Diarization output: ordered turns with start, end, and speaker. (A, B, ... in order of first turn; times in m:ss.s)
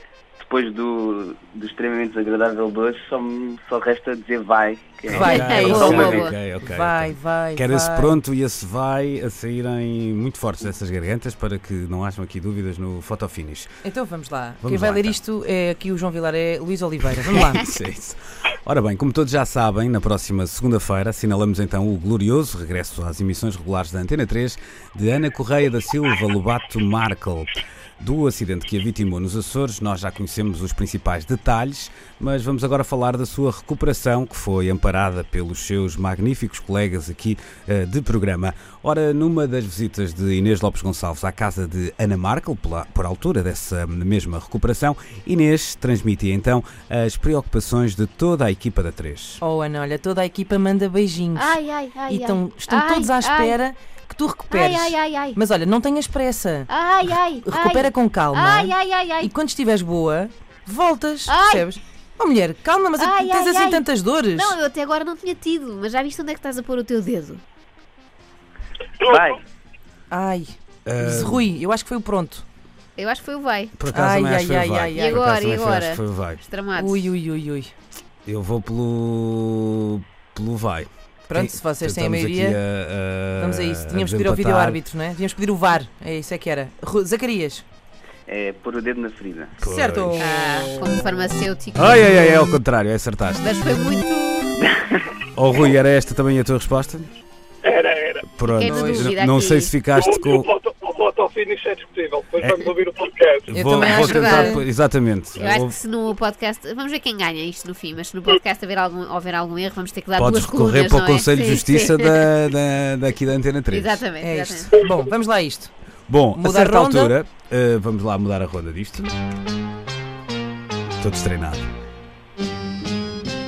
0:00.4-0:06.3 A
0:05.1-0:08.2 B
0:05.1-0:13.7 C
0:05.2-0:06.3 D
0:13.8-0:17.6 B
0:14.6-0:15.2 C
0:17.3-0:49.4 C
0:49.4-0:56.7 B
0:51.4-0:53.6 D
0:54.5-0:55.4 D
0:56.7-0:59.3 D
0:57.4-1:04.6 B
1:01.3-1:01.7 D
1:03.0-1:07.4 D
1:09.0-1:09.4 A
1:10.1-1:12.4 B
1:10.8-1:11.5 C
1:13.0-1:13.7 D
1:13.8-1:16.4 C
1:13.9-1:15.2 B
1:14.9-1:17.1 D
1:16.8-1:17.7 B
1:18.2-1:24.8 C
1:21.3-1:22.6 B
1:23.4-1:27.6 B
1:28.3-1:29.6 A
1:29.6-1:30.4 C
1:29.6-1:30.8 B
1:30.2-1:32.3 D
1:31.7-1:33.5 C
1:33.4-1:34.7 D
1:35.3-1:37.1 C
1:37.6-1:38.2 E
1:38.3-1:40.5 C
1:38.5-1:39.7 D
1:38.6-1:39.1 B
1:40.0-1:43.5 E
1:42.4-1:42.7 C
1:43.5-1:45.8 C
1:43.5-1:44.6 B
1:43.8-1:44.6 D
1:45.4-1:52.3 D
1:50.2-1:54.0 C
1:53.7-1:54.8 D
1:54.2-1:55.7 B
1:56.1-1:59.1 C
1:56.3-1:57.1 B
2:01.0-2:01.7 C